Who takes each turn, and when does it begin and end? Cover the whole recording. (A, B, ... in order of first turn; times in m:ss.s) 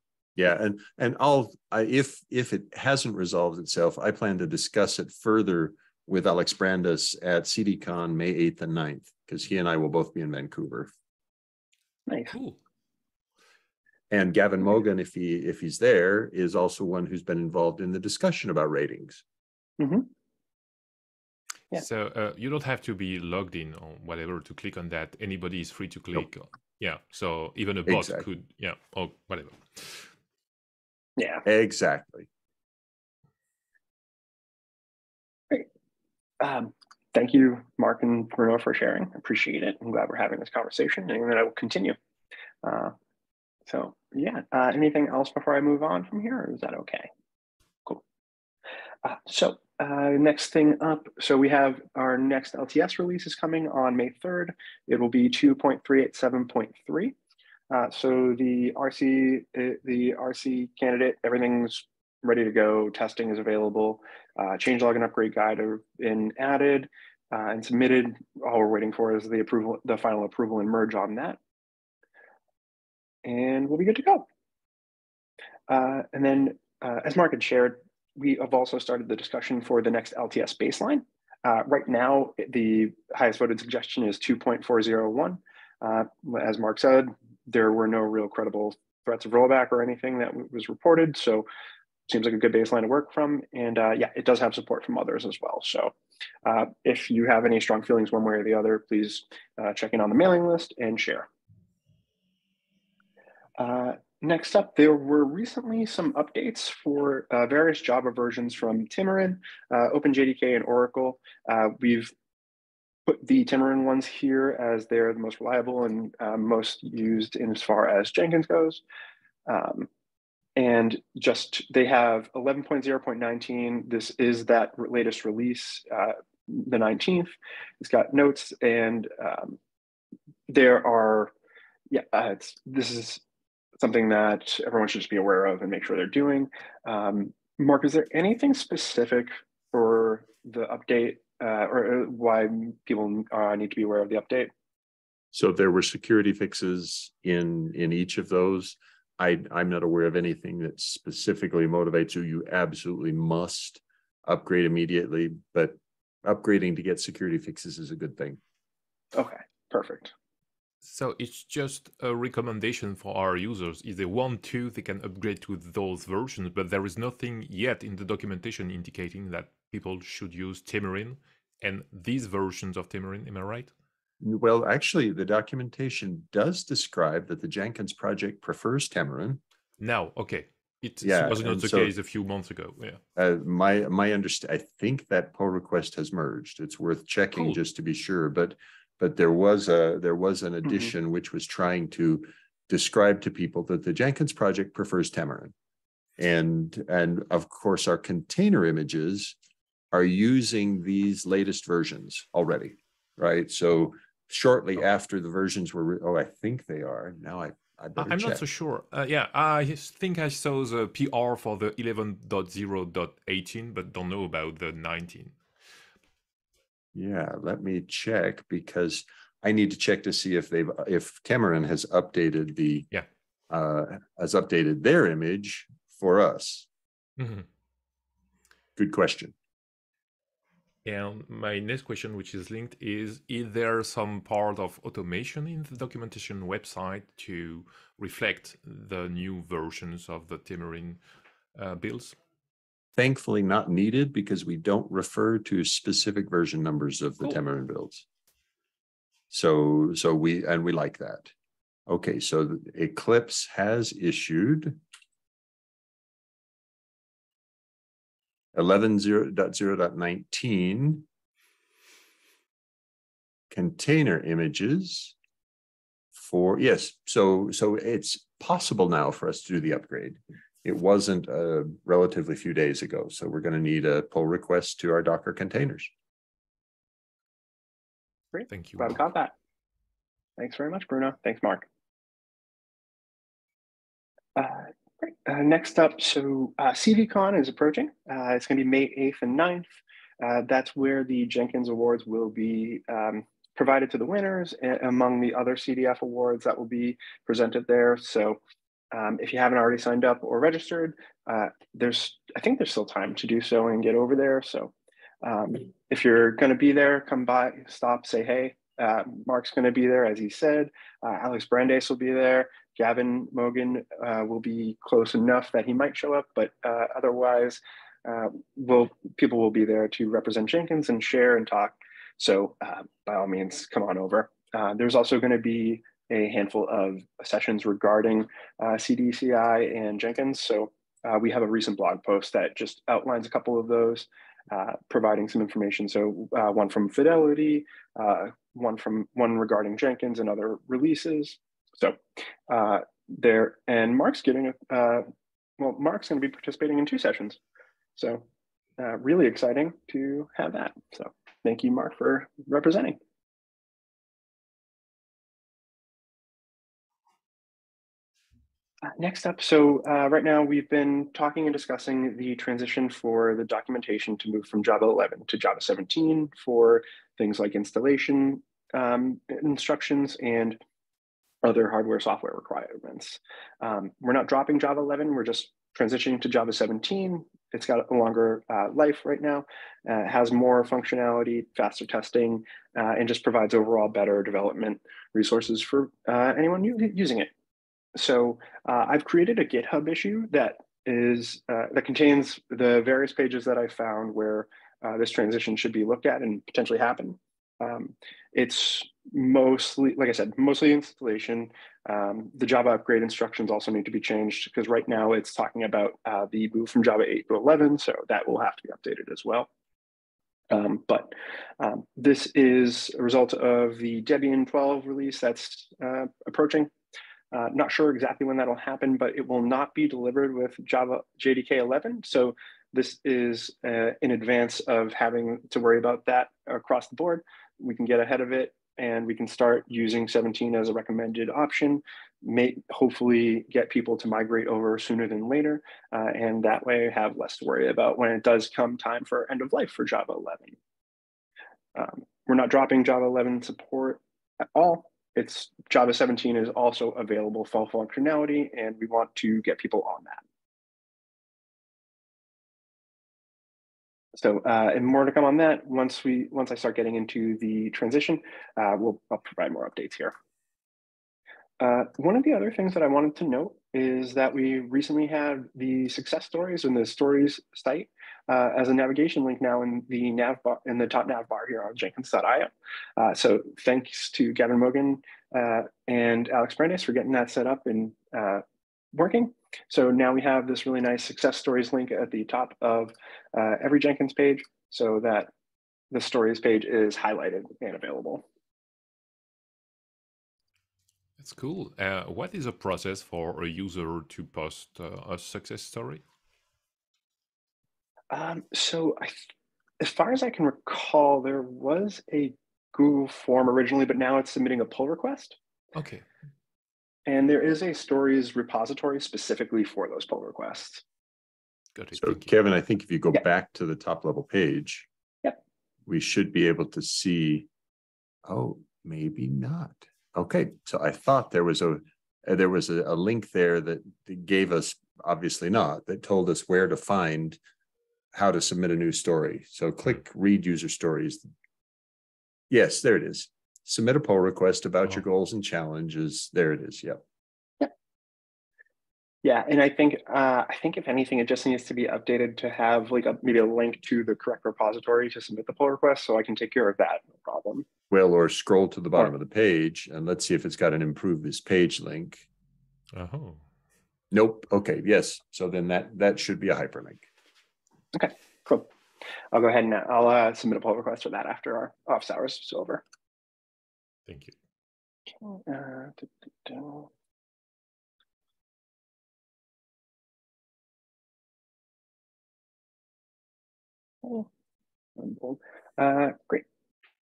0:00.4-0:10.9 A
0:12.1-0:12.4 B
0:12.3-0:12.6 C
0:14.1-0:19.2 A
0:19.8-0:20.1 B
0:21.8-0:30.1 C
0:27.9-0:28.2 A
0:31.2-0:31.4 B
0:31.4-0:32.3 A
0:36.4-0:42.0 B
0:42.6-0:42.9 B
0:43.7-0:47.1 B
0:49.0-0:57.1 B
0:57.7-1:11.4 B
1:13.2-1:14.3 B
1:15.7-1:31.5 B
1:32.1-1:35.9 B
1:36.4-1:41.3 B
1:43.6-1:52.1 B
1:53.0-1:58.8 B
1:59.5-1:59.9 B
2:00.6-2:09.6 B
2:10.5-2:11.3 B
2:11.9-2:13.2 B
2:13.8-2:24.5 B
2:25.3-2:38.4 A
2:39.1-2:40.1 B
2:40.8-2:53.7 C
2:54.2-2:59.4 A
2:59.8-3:03.0 C
3:01.0-3:01.9 A
3:03.2-3:15.5 A
3:16.2-3:19.4 A
3:19.9-3:28.4 A
3:28.0-3:35.4 C
3:36.9-3:42.9 A
3:43.5-3:46.7 A
3:47.2-3:47.5 C
3:48.8-3:49.4 A
3:50.8-4:01.0 C
4:01.5-4:02.2 C
4:03.0-4:08.0 A
4:09.3-4:11.3 A
4:11.9-4:14.8 A
4:18.5-4:21.0 A
4:23.5-4:25.1 A
4:26.1-4:35.9 A
4:38.3-4:39.3 B
4:38.5-4:39.0 C
4:40.4-4:41.6 B
4:44.4-4:58.4 B
4:58.9-5:45.0 B
5:45.6-5:47.4 B
5:48.0-5:48.2 B
5:48.8-5:53.0 B
5:59.0-6:10.6 B
6:11.4-6:27.3 B
6:28.0-6:49.5 B
6:50.5-6:56.7 B
6:57.3-7:20.6 B
7:21.7-7:30.2 B
7:34.2-7:40.1 B
7:41.6-7:58.4 B
7:58.9-8:05.3 B
8:05.9-8:08.2 B
8:11.2-8:16.0 C
8:18.1-8:19.3 B
8:19.8-8:25.4 B
8:25.7-8:26.0 C
8:27.1-8:30.8 B
8:31.8-8:32.2 C
8:32.0-8:34.9 A
8:35.9-8:37.5 A
8:38.2-8:47.4 A
8:48.1-8:51.2 A
8:52.5-8:57.0 A
8:59.2-9:07.6 B
9:07.9-9:12.2 A
9:12.9-9:13.4 C
9:14.1-9:17.1 A
9:17.9-9:18.7 B
9:19.3-9:22.8 B
9:24.1-9:24.3 C
9:25.2-9:26.9 B
9:34.0-9:34.3 B
9:35.0-9:36.4 B